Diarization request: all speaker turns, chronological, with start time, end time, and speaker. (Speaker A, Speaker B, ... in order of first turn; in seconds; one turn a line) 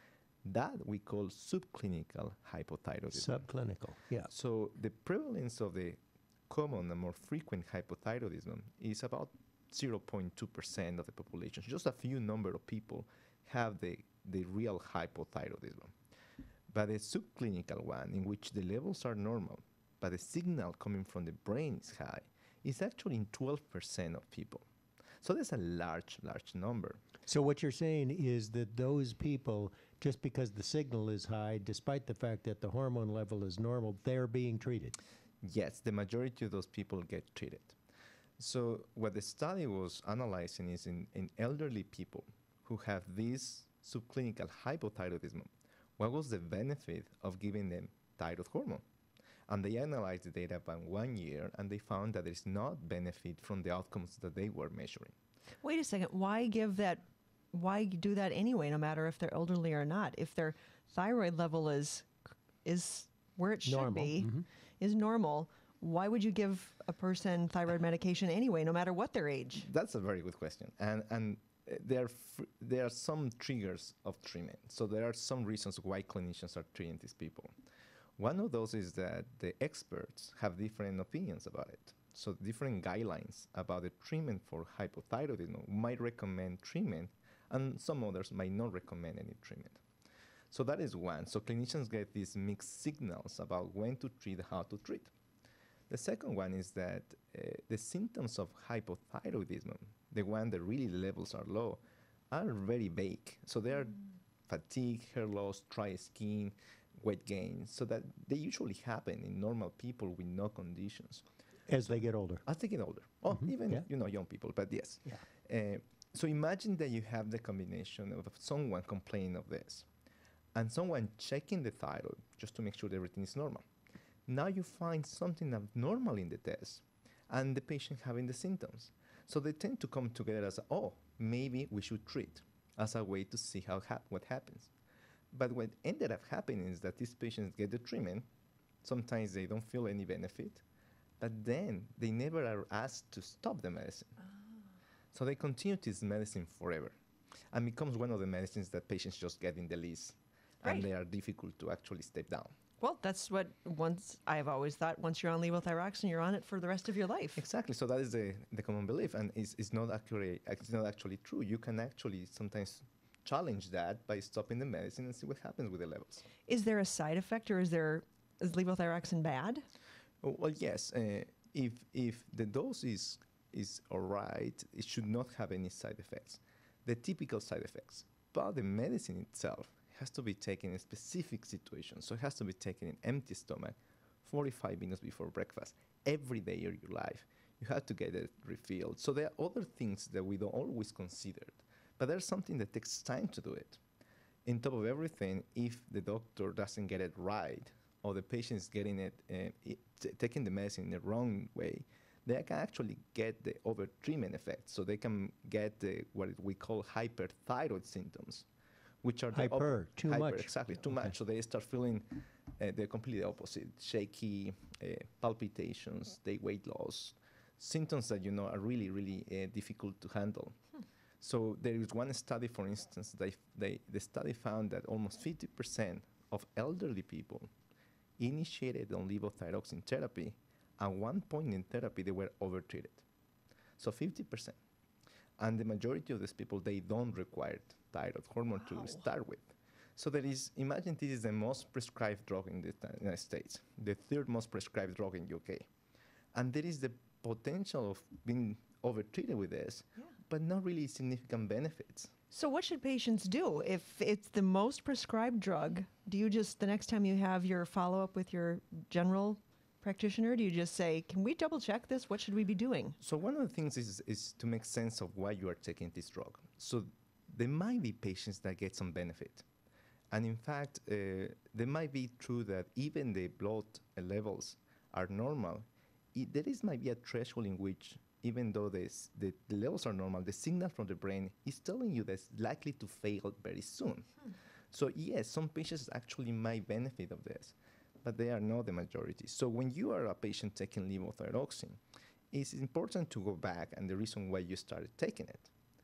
Speaker A: 0.4-3.5
Speaker B: 3.1-4.3
Speaker A: 4.3-15.9
Speaker A: 16.7-24.6
Speaker A: 25.2-27.0
Speaker B: 27.2-35.0
Speaker A: 35.4-37.8
Speaker A: 38.4-48.8
Speaker A: 49.5-55.1
Speaker C: 55.6-62.1
Speaker C: 62.6-69.7
Speaker B: 63.6-64.5
Speaker A: 69.5-77.5
Speaker A: 78.2-89.8
Speaker A: 90.5-95.1
Speaker A: 95.9-101.8
Speaker A: 102.3-111.2
Speaker B: 111.7-112.4
Speaker A: 111.9-119.9
Speaker B: 113.3-113.8
Speaker A: 120.5-123.6
Speaker A: 124.3-134.7
Speaker A: 135.3-138.2
Speaker A: 138.8-140.6
Speaker A: 141.2-144.2
Speaker A: 145.1-146.9
Speaker A: 147.5-152.5
Speaker C: 152.8-157.4
Speaker A: 157.4-166.3
Speaker C: 166.5-169.6
Speaker A: 170.2-193.8
Speaker A: 194.4-208.5
Speaker A: 209.0-220.5
Speaker B: 209.3-211.1
Speaker A: 221.2-227.5
Speaker A: 228.2-233.0
Speaker A: 233.8-234.6
Speaker A: 235.4-245.7
Speaker C: 238.6-239.0
Speaker A: 246.3-252.1
Speaker C: 252.3-262.9
Speaker A: 263.0-269.4
Speaker A: 270.1-284.1
Speaker A: 284.7-291.8
Speaker A: 292.3-295.5